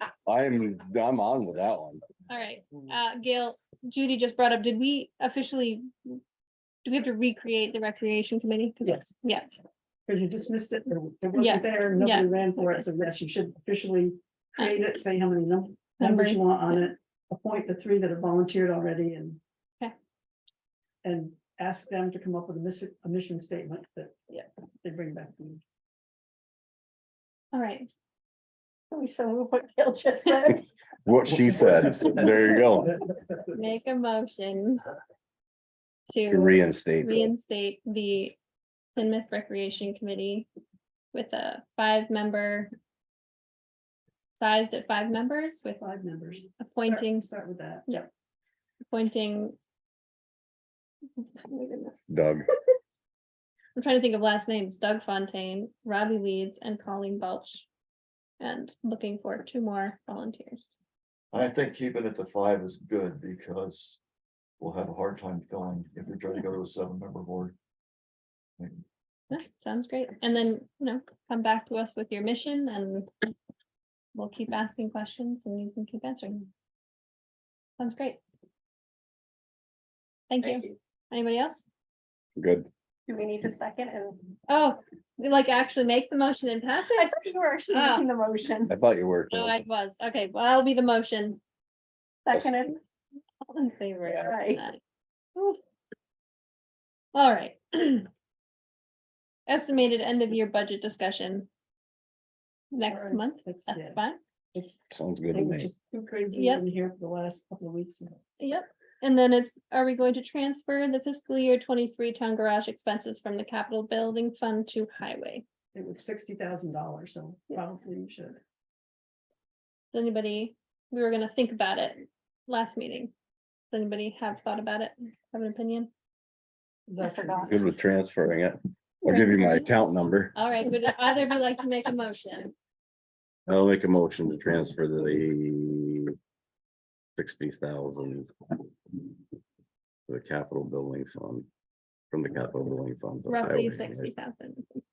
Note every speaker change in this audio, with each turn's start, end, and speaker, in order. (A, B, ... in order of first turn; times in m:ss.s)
0:00.3-0:02.0 A
0:02.3-0:06.2 B
0:06.8-0:09.5 B
0:08.8-0:09.1 C
0:10.1-0:19.4 C
0:11.4-0:12.9 B
0:16.0-0:16.9 B
0:21.0-0:24.2 C
0:24.8-0:25.6 C
0:27.5-0:27.9 B
0:28.9-0:30.6 D
0:31.0-0:33.0 A
0:33.5-0:34.8 B
0:36.1-0:38.4 B
0:36.3-0:37.3 A
0:39.0-0:40.5 B
0:41.1-0:42.7 B
0:44.4-0:45.8 B
0:45.8-0:47.9 C
0:46.6-0:47.3 B
0:48.9-0:49.6 B
0:51.2-0:52.0 B
0:52.1-0:52.5 A
0:53.8-0:57.7 B
0:58.4-1:00.8 B
1:01.3-1:04.0 E
1:04.6-1:07.6 E
1:09.3-1:13.1 B
1:14.1-1:16.5 B
1:17.8-1:18.2 B
1:20.3-1:21.6 B
1:22.4-1:22.7 A
1:23.1-1:24.3 D
1:24.5-1:27.1 B
1:26.9-1:28.7 D
1:27.7-1:28.1 B
1:28.7-1:29.6 A
1:29.3-1:31.4 B
1:32.3-1:32.8 D
1:32.3-1:32.6 A
1:33.4-1:34.8 B
1:34.1-1:34.6 D
1:37.1-1:38.1 B
1:39.5-1:41.5 B
1:42.7-1:44.2 B
1:42.8-1:44.0 C
1:44.6-1:44.8 C
1:44.9-1:45.7 A
1:45.3-1:48.2 C
1:46.3-1:46.6 B
1:48.4-1:55.4 B
1:55.7-1:58.4 C
1:59.9-2:03.1 B
2:03.7-2:05.9 B
2:06.9-2:07.5 C
2:07.1-2:07.5 D
2:07.4-2:10.3 A
2:09.0-2:09.7 B
2:10.4-2:12.5 B
2:13.5-2:16.1 A
2:17.2-2:18.3 A
2:20.1-2:21.5 A
2:22.1-2:24.1 A
2:23.3-2:24.8 B